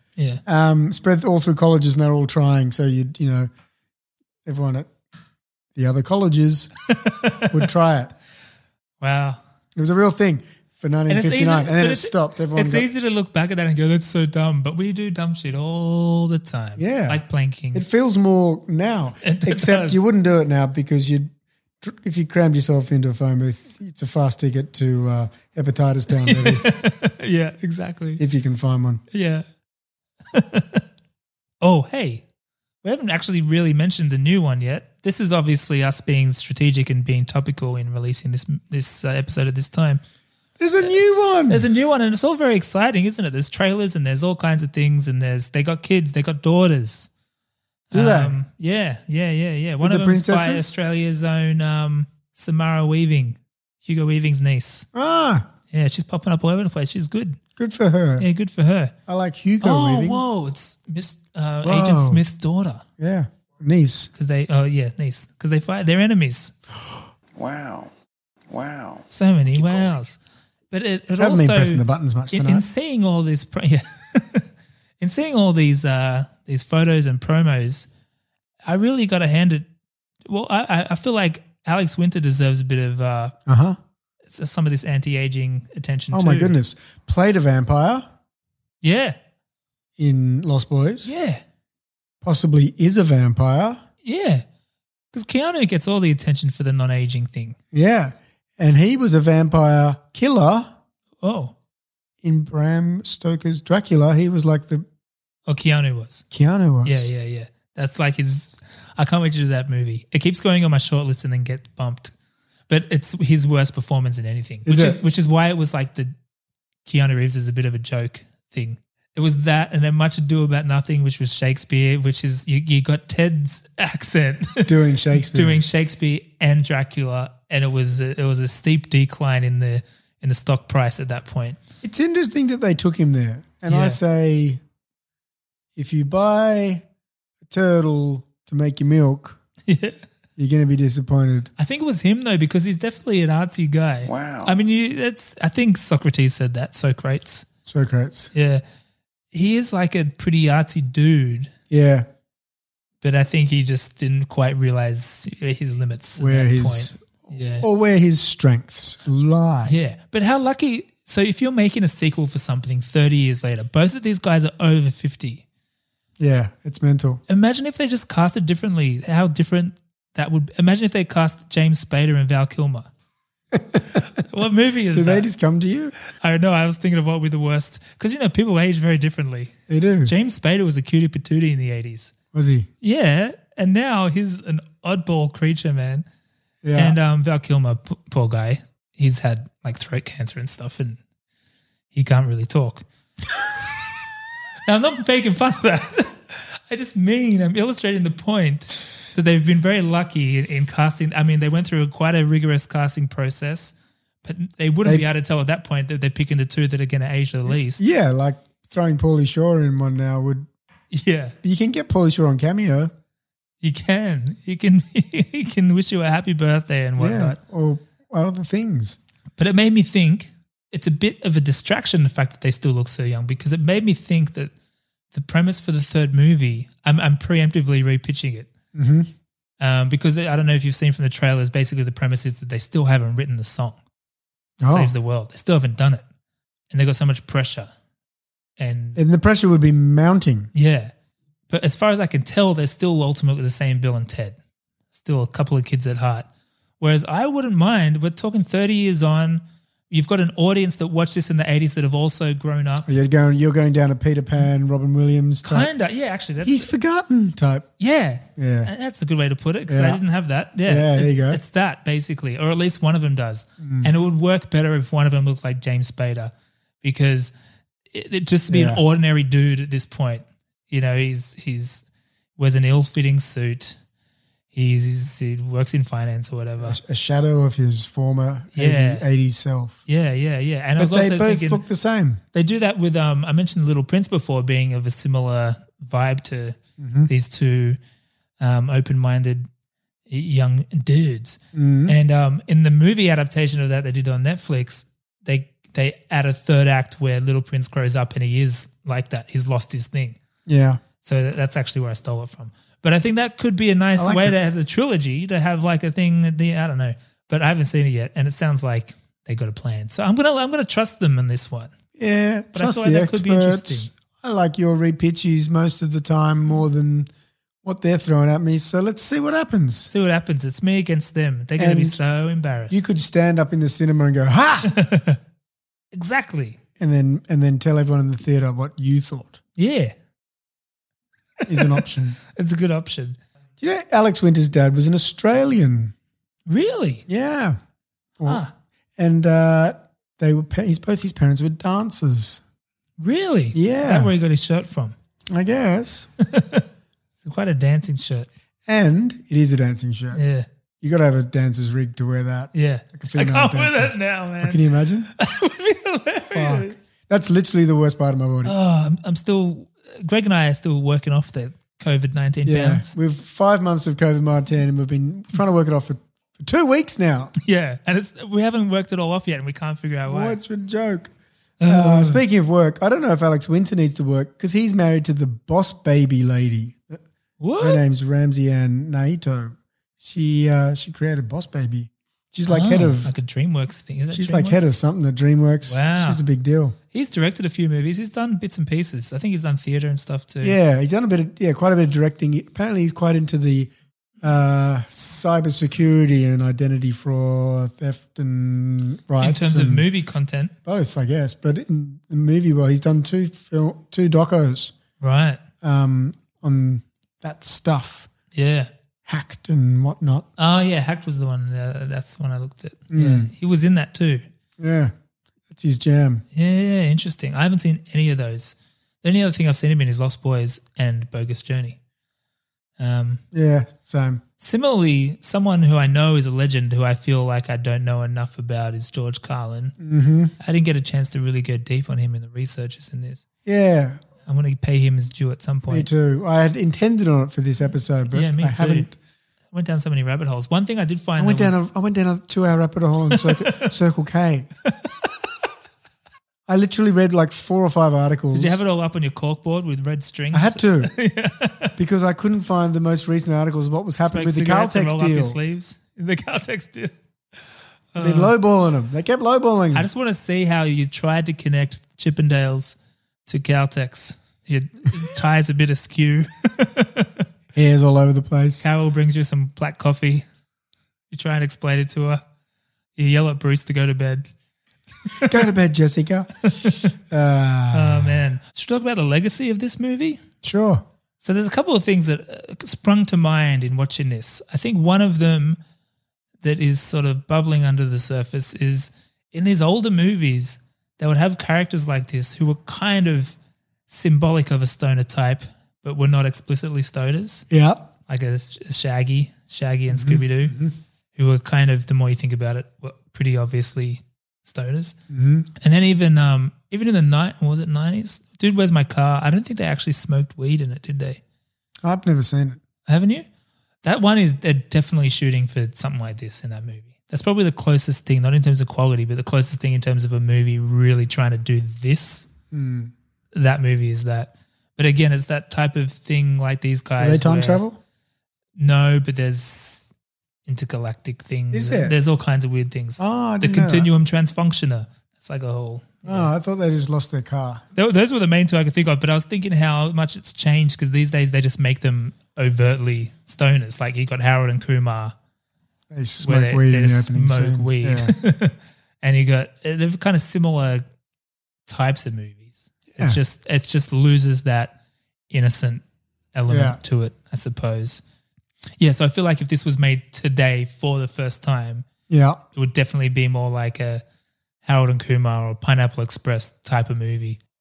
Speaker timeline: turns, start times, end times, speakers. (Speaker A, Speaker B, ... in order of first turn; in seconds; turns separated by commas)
Speaker A: 0.5-3.5, Speaker A: 4.5-4.9, Speaker A: 5.8-6.7, Speaker B: 7.0-7.7, Speaker A: 7.5-8.1, Speaker B: 9.0-9.4, Speaker A: 9.8-12.9, Speaker B: 11.1-17.9, Speaker A: 16.8-17.2, Speaker A: 17.7-26.7, Speaker B: 19.2-20.0, Speaker B: 26.2-28.2, Speaker A: 28.2-29.0, Speaker B: 29.1-29.4, Speaker B: 30.3-30.8, Speaker B: 31.6-32.2, Speaker B: 32.8-40.0, Speaker A: 40.6-41.7, Speaker B: 41.5-47.1, Speaker B: 47.9-54.9, Speaker A: 47.9-48.4, Speaker A: 49.8-50.7, Speaker A: 54.9-55.5, Speaker B: 55.7-57.4, Speaker A: 57.6-58.3, Speaker B: 58.2-58.9, Speaker A: 59.1-60.2, Speaker B: 59.6-62.8, Speaker A: 61.6-62.2, Speaker A: 63.0-64.1, Speaker B: 64.1-66.5, Speaker C: 67.4-67.9, Speaker C: 68.5-69.9, Speaker B: 69.1-70.2, Speaker B: 70.7-74.5, Speaker A: 71.2-72.7, Speaker B: 75.0-77.9, Speaker B: 78.7-79.7, Speaker B: 80.3-83.3, Speaker A: 83.5-83.8, Speaker B: 84.3-86.6, Speaker A: 86.1-88.1, Speaker B: 88.8-89.2, Speaker A: 90.0-91.1, Speaker B: 91.0-91.4, Speaker A: 92.2-93.8, Speaker B: 94.0-94.4, Speaker B: 95.1-97.6, Speaker A: 97.7-100.7, Speaker B: 101.2-101.5, Speaker A: 102.2-104.8, Speaker B: 105.5-106.2, Speaker A: 106.3-107.1, Speaker B: 106.8-112.1, Speaker B: 112.7-116.1, Speaker A: 114.7-115.0, Speaker B: 116.9-131.6, Speaker A: 124.7-125.6, Speaker A: 131.8-134.6, Speaker B: 133.7-134.0, Speaker A: 135.8-136.8, Speaker A: 137.5-139.4, Speaker B: 139.7-140.0, Speaker A: 140.4-141.5, Speaker B: 141.6-147.5, Speaker C: 144.0-144.6, Speaker A: 147.7-148.3, Speaker B: 148.3-148.6, Speaker B: 149.3-151.5, Speaker A: 151.7-152.1, Speaker B: 153.0-157.7, Speaker A: 156.2-159.8, Speaker B: 159.7-165.4, Speaker A: 166.2-167.2, Speaker B: 167.3-172.9, Speaker A: 173.5-174.0, Speaker B: 174.2-175.3, Speaker A: 174.9-175.9, Speaker B: 176.2-179.5, Speaker A: 179.7-180.1, Speaker B: 180.1-182.1, Speaker A: 182.3-182.7, Speaker B: 182.8-186.1, Speaker A: 186.6-187.0, Speaker B: 186.8-191.0, Speaker B: 191.9-192.8, Speaker B: 194.7-203.7, Speaker B: 204.2-207.8, Speaker A: 207.5-210.5, Speaker B: 210.9-211.3, Speaker A: 211.4-212.9, Speaker B: 213.6-217.4, Speaker A: 217.0-219.0, Speaker B: 219.4-224.5, Speaker B: 225.1-228.5, Speaker A: 228.7-229.1, Speaker B: 229.6-233.8, Speaker A: 234.6-234.9, Speaker B: 234.6-236.0, Speaker B: 236.7-237.7, Speaker B: 238.6-239.0, Speaker A: 239.0-240.5, Speaker B: 240.5-240.9, Speaker B: 241.5-244.4, Speaker B: 244.9-246.3, Speaker B: 246.8-252.9, Speaker A: 252.9-255.7, Speaker B: 255.4-256.7, Speaker A: 256.4-257.7, Speaker B: 257.8-267.3, Speaker A: 258.4-258.7, Speaker A: 259.7-260.0, Speaker A: 260.7-261.4, Speaker A: 263.6-263.9, Speaker B: 267.9-271.8, Speaker A: 268.5-268.8, Speaker B: 272.4-273.8, Speaker B: 274.5-276.8, Speaker A: 276.6-279.8, Speaker B: 278.5-279.1, Speaker B: 279.9-281.6, Speaker A: 280.8-282.2, Speaker B: 282.3-287.8, Speaker A: 286.8-287.1, Speaker B: 288.4-289.5, Speaker B: 290.1-300.2, Speaker A: 291.5-292.0, Speaker A: 300.5-300.8, Speaker B: 301.0-311.7, Speaker A: 304.0-304.4, Speaker A: 312.0-317.1, Speaker B: 312.5-313.9, Speaker A: 317.6-319.9, Speaker B: 319.9-322.9, Speaker A: 321.6-322.0, Speaker A: 322.7-324.7, Speaker B: 324.6-325.2, Speaker B: 325.9-326.6, Speaker A: 326.8-329.4, Speaker B: 329.6-329.9, Speaker A: 331.5-332.2, Speaker B: 331.6-333.2, Speaker A: 333.6-335.9, Speaker B: 336.5-337.0, Speaker A: 337.1-337.6, Speaker B: 338.2-338.5, Speaker A: 339.0-342.4, Speaker B: 343.0-344.9, Speaker A: 343.5-344.1, Speaker A: 345.3-346.1, Speaker B: 346.3-346.6, Speaker B: 347.2-348.3, Speaker A: 348.7-350.2, Speaker B: 350.1-350.5, Speaker A: 350.8-355.1, Speaker B: 352.5-354.6, Speaker B: 355.2-356.8, Speaker A: 356.3-358.5, Speaker B: 358.4-362.9, Speaker A: 362.4-367.3, Speaker B: 367.4-370.4, Speaker A: 370.1-371.1, Speaker B: 371.6-372.2, Speaker A: 371.7-377.0, Speaker B: 377.4-377.8, Speaker A: 377.6-383.1, Speaker B: 382.5-384.7, Speaker A: 384.1-386.8, Speaker B: 385.7-386.2, Speaker B: 386.9-390.6, Speaker A: 390.4-399.9, Speaker B: 399.2-400.5, Speaker A: 400.6-404.7, Speaker B: 405.0-405.4, Speaker A: 405.6-408.1, Speaker B: 408.3-408.7, Speaker A: 409.1-410.3, Speaker B: 410.4-414.2, Speaker A: 412.9-413.3, Speaker A: 414.6-414.9, Speaker A: 415.5-416.2, Speaker B: 416.3-421.8, Speaker B: 422.8-423.2, Speaker A: 423.3-424.2, Speaker B: 424.4-429.8, Speaker A: 429.8-430.3, Speaker B: 430.4-433.2, Speaker A: 433.4-434.0, Speaker B: 434.3-435.9, Speaker A: 435.7-439.0, Speaker B: 438.1-438.9, Speaker B: 439.5-441.6, Speaker A: 441.2-444.5, Speaker B: 443.1-443.7, Speaker A: 446.5-448.6, Speaker B: 448.3-451.7, Speaker A: 450.3-450.9, Speaker A: 451.8-455.4, Speaker B: 454.0-456.9, Speaker B: 457.9-458.3, Speaker A: 458.0-459.9, Speaker B: 459.7-462.8, Speaker B: 463.3-467.2, Speaker A: 467.5-468.6, Speaker B: 468.6-470.3, Speaker B: 471.1-472.2, Speaker B: 473.0-474.3, Speaker B: 475.1-475.4, Speaker A: 475.2-478.2, Speaker B: 476.5-476.9, Speaker B: 477.7-480.2, Speaker A: 480.4-480.8, Speaker B: 481.2-485.6, Speaker B: 486.4-493.4, Speaker B: 493.9-497.5, Speaker A: 497.5-497.9, Speaker B: 498.1-500.6, Speaker A: 499.9-500.7, Speaker B: 501.1-505.0, Speaker A: 505.1-505.5, Speaker B: 505.6-511.2, Speaker A: 511.8-512.6, Speaker B: 512.9-513.2, Speaker B: 513.8-522.3, Speaker A: 522.5-522.9, Speaker B: 523.3-527.6, Speaker A: 527.0-527.8, Speaker B: 528.6-529.9, Speaker B: 530.5-536.3, Speaker A: 531.5-532.0, Speaker A: 533.0-533.9, Speaker A: 536.0-537.6, Speaker B: 537.8-545.1, Speaker A: 545.9-548.1, Speaker B: 546.2-550.8, Speaker B: 551.7-554.7, Speaker A: 552.9-553.2, Speaker B: 555.3-555.8, Speaker B: 556.3-558.0, Speaker A: 556.5-556.8, Speaker B: 558.8-561.9, Speaker A: 562.1-562.4, Speaker B: 562.5-564.0, Speaker B: 564.6-567.4